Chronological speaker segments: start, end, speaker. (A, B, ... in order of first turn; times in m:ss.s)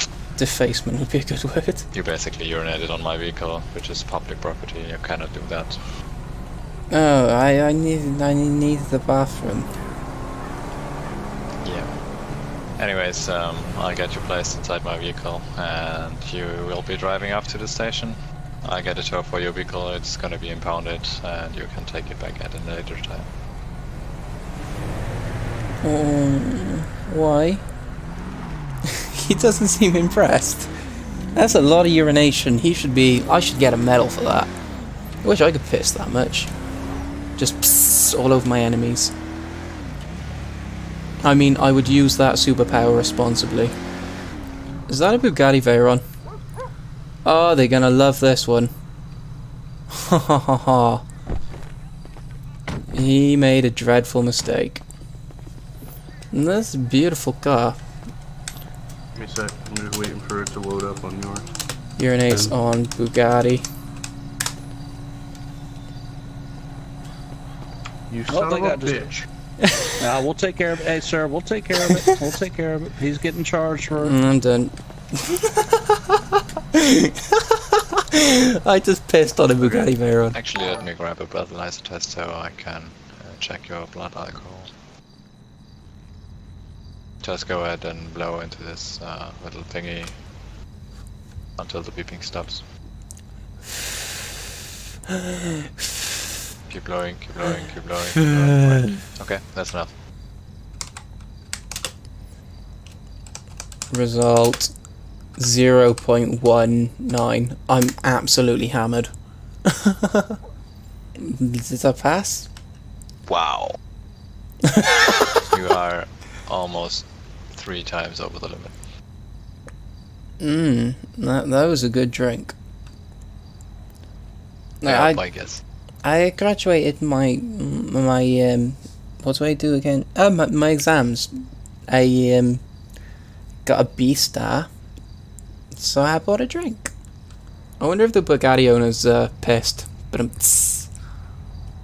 0:00.4-0:01.9 A
0:01.9-0:05.8 B
0:06.9-0:09.7 A
0:11.6-0:11.9 B
0:12.8-0:23.3 B
0:25.8-0:27.6 A
0:28.8-0:30.7 A
0:31.3-0:34.5 A
0:35.2-0:36.5 A
0:37.4-0:39.1 A
0:41.2-0:43.8 A
0:44.9-0:46.0 A
0:47.2-0:48.7 A
0:49.9-0:51.0 A
0:52.9-0:54.8 A
0:56.3-0:57.8 A
0:59.1-1:01.5 C
1:02.0-1:03.6 A
1:08.1-1:09.2 C
1:08.3-1:09.2 D
1:09.6-1:10.0 A
1:10.0-1:14.1 D
1:14.0-1:16.2 A
1:16.7-1:20.4 A
1:20.3-1:24.7 B
1:27.2-1:30.2 B
1:31.6-1:32.6 B
1:36.7-1:39.9 B
1:38.2-1:39.0 A
1:43.9-1:44.7 A
1:45.4-1:49.1 A
1:49.6-1:50.4 A
1:51.2-1:52.5 A
1:53.3-1:53.8 B
1:54.7-1:55.1 A
1:55.5-1:58.7 B
2:00.4-2:02.5 A
2:04.8-2:05.2 A
2:04.8-2:05.6 B
2:06.0-2:12.6 A
2:13.6-2:14.7 A
2:15.7-2:16.9 A
2:17.8-2:20.9 A